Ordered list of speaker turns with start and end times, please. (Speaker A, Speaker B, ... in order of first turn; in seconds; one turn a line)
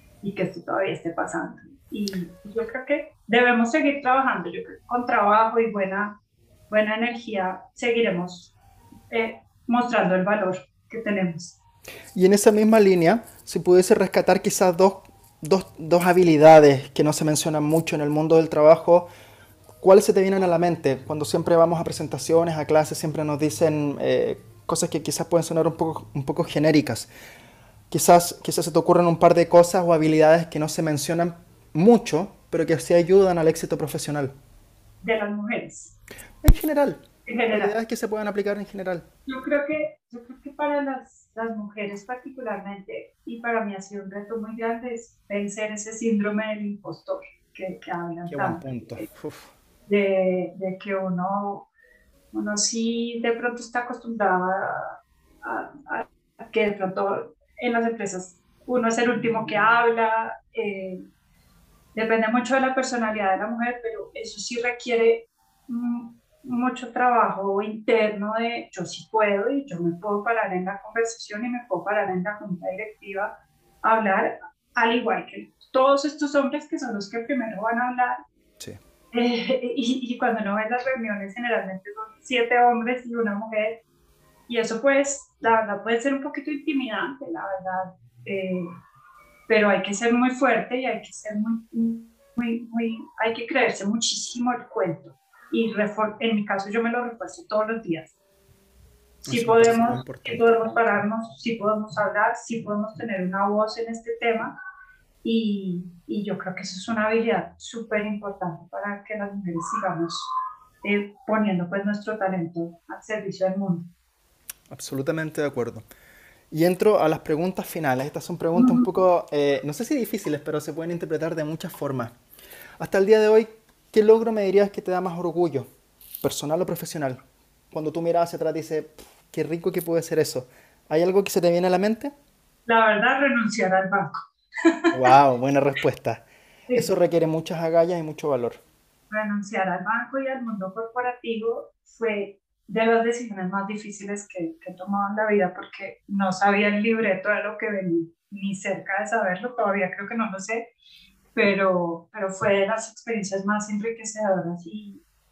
Speaker A: 0.2-6.2
Speaker A: 6.7-8.5
Speaker A: 9.1-11.6
Speaker B: 12.1-19.1
Speaker B: 19.8-27.1
Speaker B: 27.9-34.3
Speaker A: 35.0-36.0
Speaker B: 36.4-39.0
Speaker A: 37.2-37.7
Speaker A: 39.3-49.0
Speaker B: 48.3-49.5
Speaker A: 49.9-51.7
Speaker A: 52.3-61.0
Speaker A: 61.9-73.3
Speaker A: 73.8-78.2
Speaker A: 79.1-83.8
Speaker A: 84.5-88.7
Speaker A: 89.5-98.2
Speaker A: 99.2-104.5
Speaker B: 99.3-100.5
Speaker A: 105.2-110.3
Speaker A: 110.8-113.9
Speaker B: 114.7-115.8
Speaker B: 116.5-122.1
Speaker A: 118.5-118.9
Speaker B: 122.8-125.7
Speaker B: 126.2-127.2
Speaker B: 127.7-132.1
Speaker A: 132.7-134.9
Speaker B: 134.9-136.2
Speaker B: 136.7-138.6
Speaker A: 139.1-150.7
Speaker A: 151.3-155.0